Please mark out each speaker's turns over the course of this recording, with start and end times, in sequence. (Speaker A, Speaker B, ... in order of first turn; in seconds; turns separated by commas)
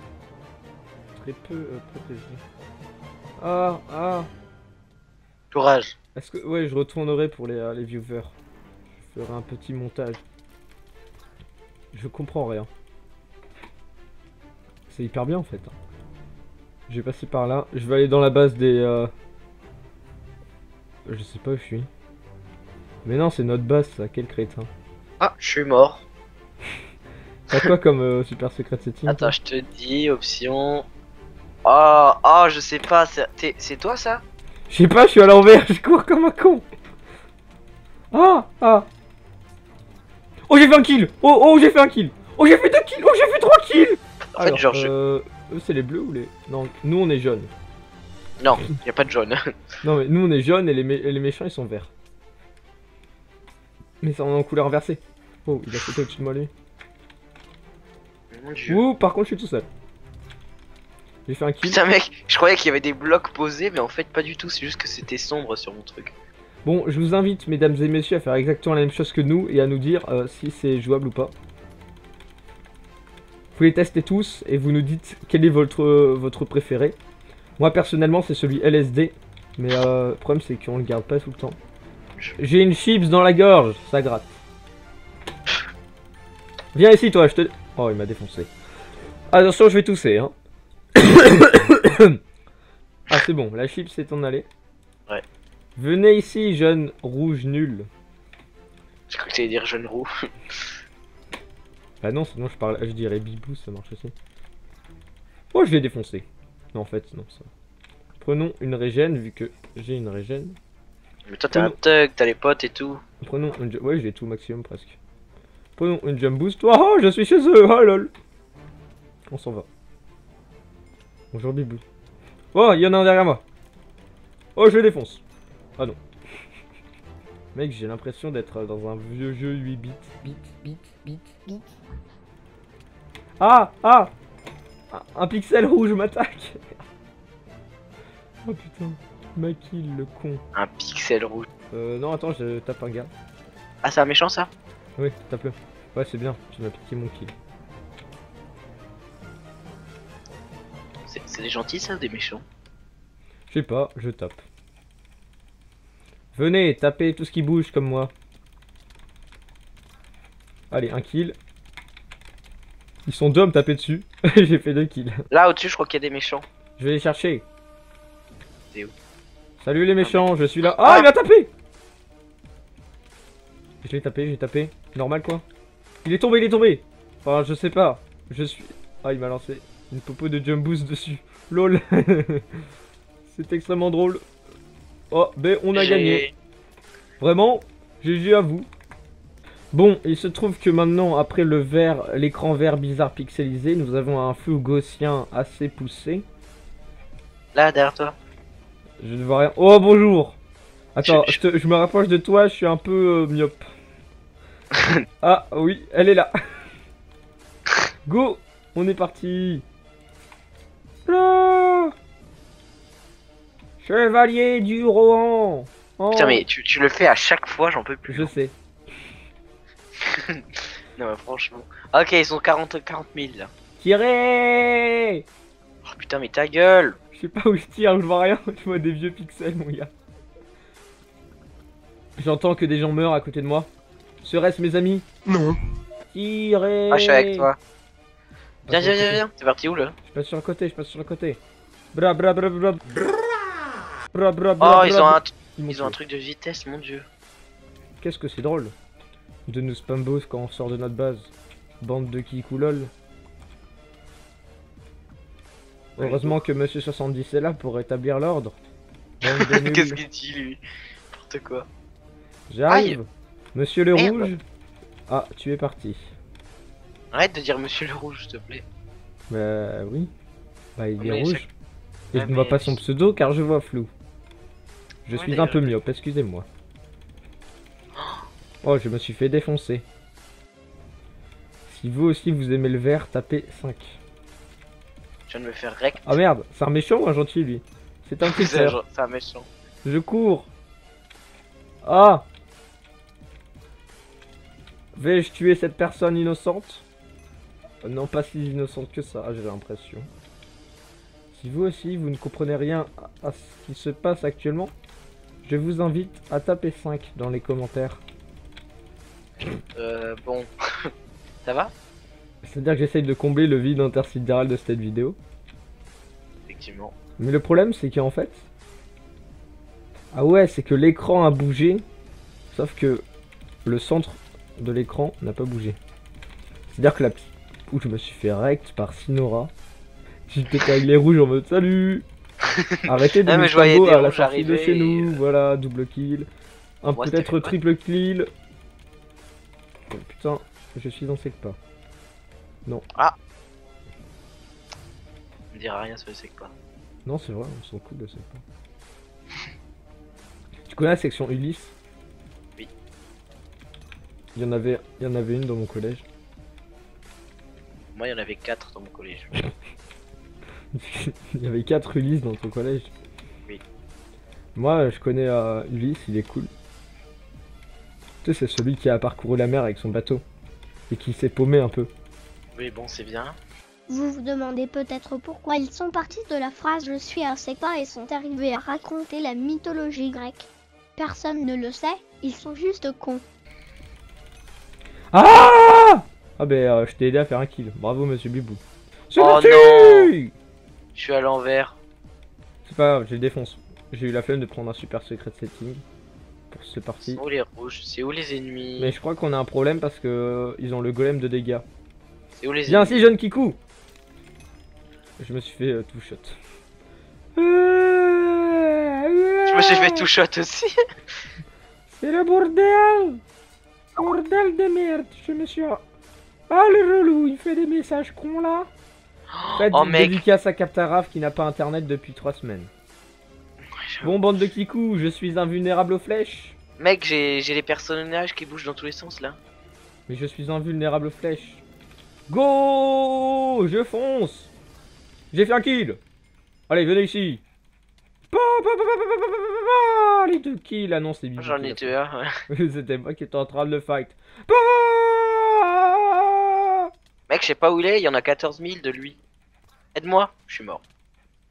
Speaker A: 1.1-2.4, Speaker A: 3.4-4.3, Speaker B: 5.5-6.0, Speaker A: 6.2-8.3, Speaker A: 9.0-10.2, Speaker A: 11.9-12.7, Speaker A: 14.9-15.8, Speaker A: 16.9-19.1, Speaker A: 21.1-21.9, Speaker A: 23.1-24.7, Speaker B: 25.2-26.0, Speaker A: 27.5-29.3, Speaker B: 29.1-30.9, Speaker B: 31.6-34.2, Speaker A: 34.7-36.6, Speaker A: 38.1-38.9, Speaker A: 40.5-47.5, Speaker B: 44.4-44.9, Speaker B: 48.4-49.4, Speaker A: 49.8-51.9, Speaker A: 54.0-56.5, Speaker B: 58.3-58.8, Speaker A: 58.7-59.7, Speaker A: 61.3-61.8, Speaker B: 61.6-66.1, Speaker A: 66.6-71.3, Speaker A: 73.6-77.0, Speaker A: 77.6-81.6, Speaker A: 82.4-84.3, Speaker A: 86.7-88.5, Speaker A: 89.3-90.3, Speaker A: 90.9-92.2, Speaker A: 93.1-94.5, Speaker A: 95.8-97.9, Speaker B: 99.1-100.1, Speaker A: 102.0-104.1, Speaker A: 105.5-107.5, Speaker A: 108.2-110.6, Speaker B: 111.3-113.0, Speaker A: 113.2-115.0, Speaker A: 115.8-118.1, Speaker A: 119.3-119.7, Speaker A: 121.3-121.8, Speaker A: 122.5-123.4, Speaker A: 124.6-125.2, Speaker A: 127.5-131.6, Speaker A: 133.4-134.1, Speaker A: 134.9-136.8, Speaker A: 138.5-140.4, Speaker B: 140.6-141.5, Speaker A: 141.7-143.1, Speaker B: 143.8-144.5, Speaker A: 145.0-147.3, Speaker B: 151.1-152.4, Speaker A: 153.5-154.4, Speaker A: 156.3-158.1, Speaker A: 160.7-161.4, Speaker A: 163.1-165.2, Speaker B: 165.3-166.4, Speaker A: 166.8-167.4, Speaker A: 169.6-171.5, Speaker B: 170.7-171.1, Speaker A: 173.8-175.4, Speaker A: 176.0-182.4, Speaker A: 183.3-184.2, Speaker A: 185.1-186.3, Speaker B: 185.7-186.3, Speaker A: 187.2-188.7, Speaker A: 189.7-196.2, Speaker B: 197.6-198.2, Speaker A: 199.0-200.4, Speaker A: 200.9-203.6, Speaker B: 201.0-201.4, Speaker A: 205.2-206.3, Speaker A: 208.1-209.7, Speaker A: 211.1-211.9, Speaker A: 213.8-216.4, Speaker B: 216.1-218.3, Speaker A: 218.1-218.5, Speaker B: 220.0-220.4, Speaker B: 221.0-223.5, Speaker A: 223.8-225.2, Speaker B: 225.9-227.0, Speaker A: 227.1-229.9, Speaker A: 232.2-233.7, Speaker A: 234.2-235.1, Speaker A: 236.1-237.5, Speaker B: 236.9-237.6, Speaker A: 238.7-239.2, Speaker B: 238.7-239.9, Speaker A: 240.1-241.4, Speaker A: 241.9-242.9, Speaker A: 244.1-245.9, Speaker B: 244.6-247.1, Speaker A: 248.0-248.7, Speaker A: 249.5-252.9, Speaker B: 256.0-256.4, Speaker A: 256.0-258.6, Speaker A: 259.2-260.0, Speaker B: 259.2-261.7, Speaker A: 262.5-264.4, Speaker B: 262.7-263.0, Speaker B: 263.9-264.3, Speaker A: 265.1-266.0, Speaker B: 267.1-268.6, Speaker A: 269.3-270.1, Speaker A: 270.8-271.5, Speaker B: 271.0-271.4, Speaker A: 272.1-273.9, Speaker B: 272.1-272.8, Speaker A: 275.1-276.5, Speaker B: 275.1-275.7, Speaker A: 278.6-279.8, Speaker A: 281.7-284.0, Speaker B: 285.3-286.2, Speaker A: 286.1-288.8, Speaker B: 288.2-289.5, Speaker A: 289.8-290.5, Speaker A: 291.8-292.2, Speaker A: 294.9-296.8, Speaker A: 297.8-300.1, Speaker A: 301.3-304.7, Speaker A: 305.4-308.0, Speaker B: 309.8-310.5, Speaker B: 311.4-311.7, Speaker A: 312.4-315.2, Speaker B: 316.5-316.9, Speaker A: 317.2-318.5, Speaker A: 320.1-321.8, Speaker A: 322.5-323.1, Speaker A: 323.6-325.8, Speaker A: 326.7-329.5, Speaker A: 330.3-332.1, Speaker B: 332.6-335.2, Speaker A: 332.8-336.3, Speaker A: 336.8-338.3, Speaker B: 336.9-337.5, Speaker A: 339.9-341.6, Speaker B: 345.5-346.5, Speaker A: 347.1-348.4, Speaker A: 350.7-351.8, Speaker A: 354.3-356.1, Speaker B: 357.9-359.3, Speaker A: 360.7-362.9, Speaker A: 364.6-366.5, Speaker A: 368.2-370.2, Speaker A: 370.9-371.9, Speaker B: 372.6-373.4, Speaker C: 373.9-383.2, Speaker A: 385.1-390.3, Speaker B: 389.2-390.1, Speaker B: 390.9-391.8, Speaker A: 392.6-395.8, Speaker A: 396.5-397.2, Speaker B: 397.1-398.9, Speaker A: 398.8-401.6, Speaker B: 402.4-403.1, Speaker A: 402.7-403.6, Speaker A: 405.2-406.4, Speaker A: 407.4-410.1, Speaker B: 409.5-410.7, Speaker A: 411.9-413.2, Speaker A: 413.9-415.8, Speaker A: 416.5-418.7, Speaker B: 419.3-420.2, Speaker A: 419.6-422.7, Speaker B: 423.9-424.2, Speaker A: 424.0-426.6, Speaker B: 426.8-429.4, Speaker A: 430.1-431.6, Speaker A: 432.3-434.5, Speaker A: 435.3-436.0, Speaker A: 436.7-437.4, Speaker A: 438.3-441.9, Speaker B: 441.4-442.3, Speaker A: 442.5-446.9, Speaker B: 447.3-449.2, Speaker B: 449.9-450.8